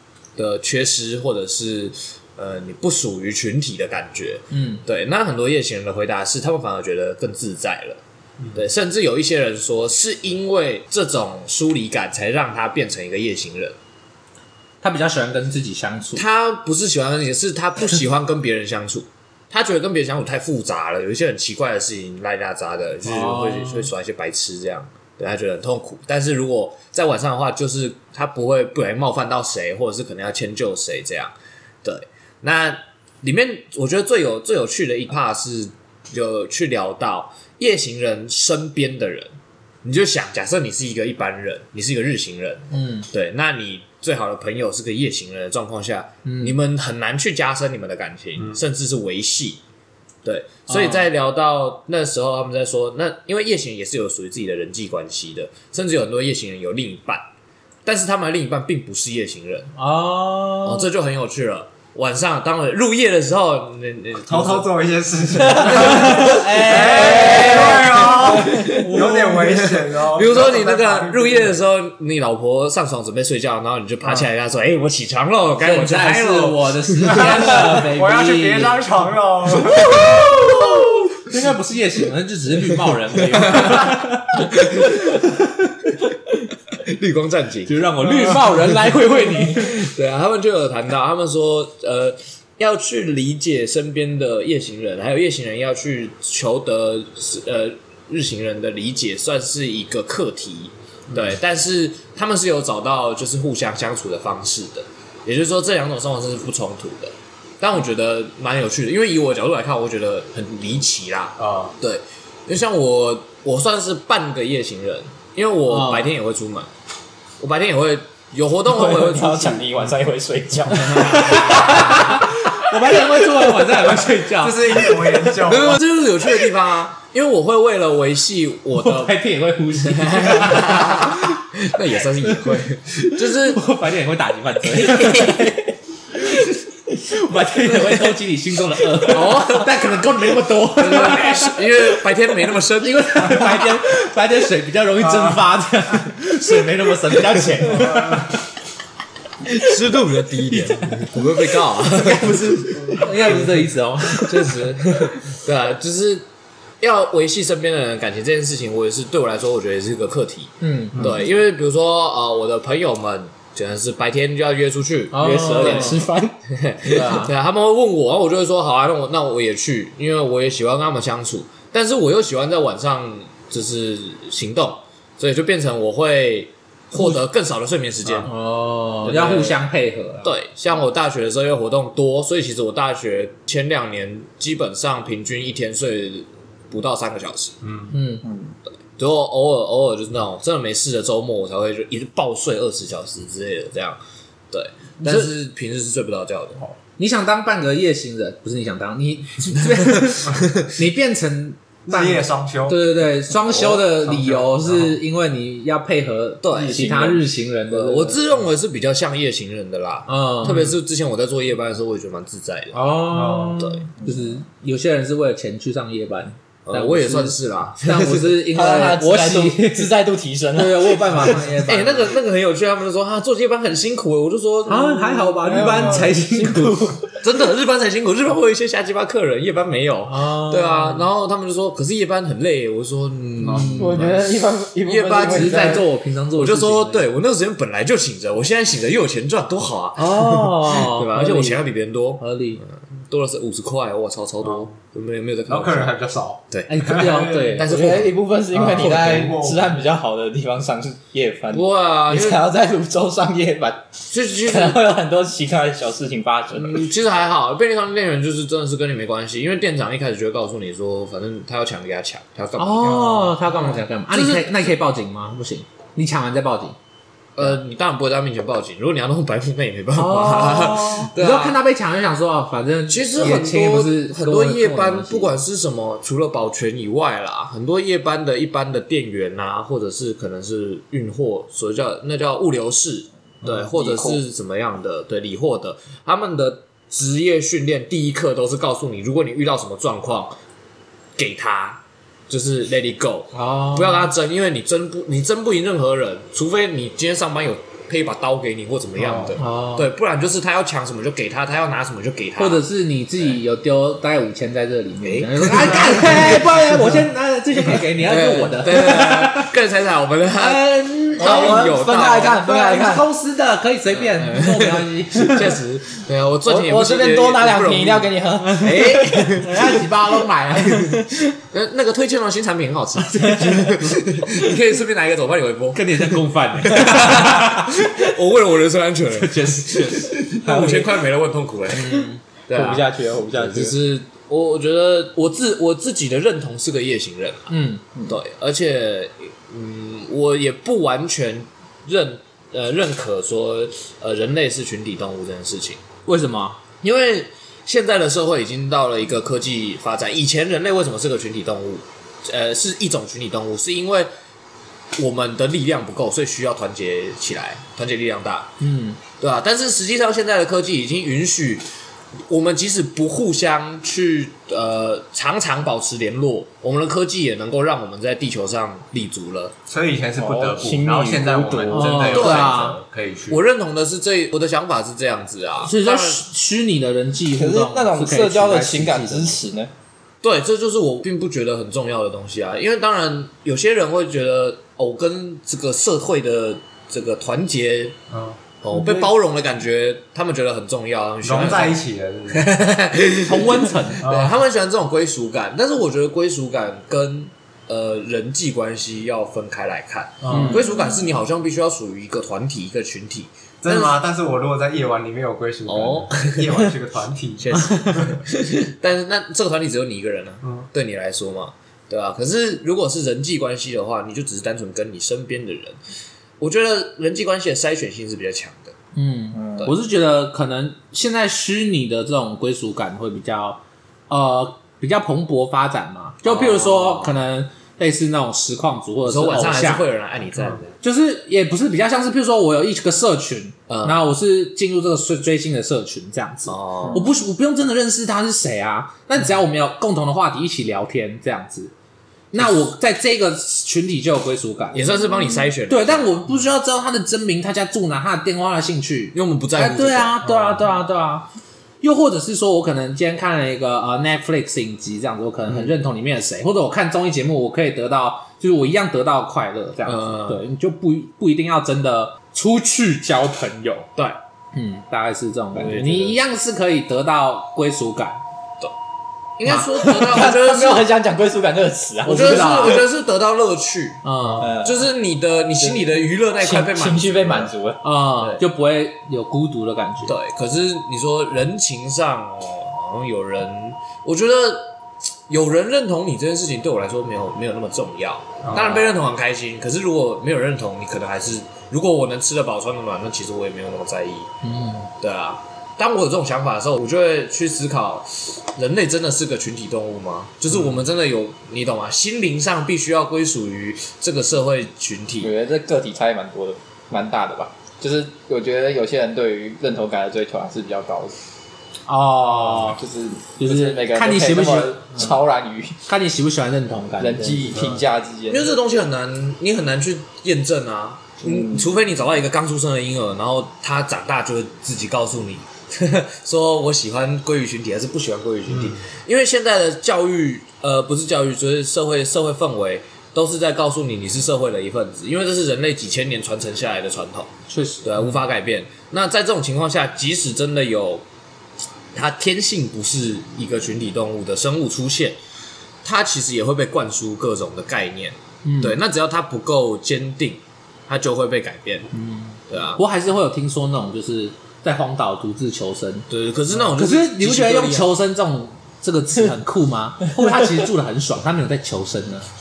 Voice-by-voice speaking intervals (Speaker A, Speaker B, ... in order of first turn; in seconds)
Speaker A: 0.3-8.0, 8.5-13.8, 16.1-49.6, 50.2-57.2, 57.8-59.7, 60.6-64.7, 65.7-77.6, 79.8-80.3, 83.3-85.0, 86.7-116.7, 117.4-119.7, 121.2-122.0, 125.4-129.2, 129.8-133.6, 139.0-139.8, 140.8-143.6, 149.4-153.6, 154.1-156.2, 156.8-166.0, 166.5-178.3, 179.0-179.6, 180.2-187.6, 189.0-194.0, 194.5-196.6, 199.6-200.7, 203.5-203.8, 206.4-212.8, 213.6-213.8, 216.7-218.5, 221.6-225.0, 227.2-245.9, 246.5-248.2, 251.5-252.5, 254.1-254.8, 256.5-264.5, 267.4-271.6, 272.9-290.4, 291.2-302.6, 305.0-307.0, 307.6-312.4, 313.9-319.6, 321.5-337.5, 338.1-345.8, 346.8-354.1, 355.0-358.5, 359.2-361.7, 362.3-369.5, 372.1-372.6, 373.3-376.2, 380.2-387.9, 388.6-404.0, 405.6-406.7, 407.4-415.8, 416.4-418.7, 426.2-427.2, 429.0-430.8, 433.7-434.0, 436.5-437.1, 444.7-446.2, 449.1-450.2, 459.8-460.4, 465.5-466.2, 469.4-470.9, 472.1-477.5, 480.0-484.7, 485.3-494.3, 495.0-505.3, 518.3-541.0, 541.9-545.2, 545.8-551.9, 552.5-552.8, 556.1-557.9
Speaker B: 4.5-4.8, 14.8-16.2, 23.0-23.9, 42.7-43.1, 46.2-46.5, 50.7-51.0, 59.8-60.9, 65.6-69.5, 75.6-78.9, 79.8-85.7, 87.7-89.8, 115.7-116.1, 120.8-125.1, 128.8-131.4, 132.2-132.5, 133.2-135.6, 137.0-141.7, 142.8-148.3, 151.8-154.6, 160.6-161.1, 165.1-166.0, 166.9-167.3, 178.2-180.3, 187.9-188.2, 195.0-195.3, 197.0-208.2, 210.1-210.8, 212.7-220.0, 220.5-222.1, 224.7-227.0, 230.1-231.1, 233.4-234.0, 235.2-237.1, 240.0-241.7, 242.2-242.6, 246.7-247.7, 262.6-266.8, 269.9-275.3, 293.3-294.1, 299.4-299.9, 302.4-309.5, 310.4-311.8, 312.3-315.5, 319.4-320.9, 325.7-327.7, 329.1-330.8, 331.7-332.2, 337.5-337.8, 346.1-346.6, 358.6-359.0, 371.7-372.8, 375.6-379.4, 393.2-394.0, 400.3-400.7, 418.9-429.8, 430.8-441.7, 442.3-445.1, 445.7-451.3, 451.8-463.9, 464.5-468.2, 472.1-472.8, 474.0-474.5, 477.8-480.1, 494.4-494.9, 511.9-512.8, 513.4-515.1, 515.9-517.7, 537.5-537.9, 548.4-548.8, 551.9-556.1, 556.8-562.3
Speaker C: 64.2-71.5, 77.2-80.2, 101.1-101.3, 111.4-111.7, 124.3-125.8, 145.0-145.5, 147.6-148.3, 187.6-187.9, 201.8-202.8, 203.8-204.9, 213.1-213.6, 225.5-226.1, 244.4-244.7, 245.5-247.6, 248.5-249.8, 299.0-299.4, 369.7-373.4, 388.1-388.4, 391.2-392.5, 394.0-394.4, 400.2-400.7, 403.6-408.2, 488.4-488.8, 528.5-528.8
Speaker D: 66.7-67.9, 118.7-122.3, 123.0-123.4, 134.8-135.7, 165.2-166.3, 188.2-188.5, 214.0-214.3, 218.5-221.4, 225.1-227.1, 233.7-235.8, 247.7-253.9, 254.4-256.9, 283.8-284.1, 311.2-313.1, 316.4-319.5, 320.7-321.2, 323.3-323.7, 330.4-330.8, 332.5-333.8, 370.1-372.1, 377.3-379.7, 469.7-472.8, 474.4-474.8, 476.4-477.8, 505.2-511.2, 512.4-515.8, 517.0-518.5, 521.2-521.7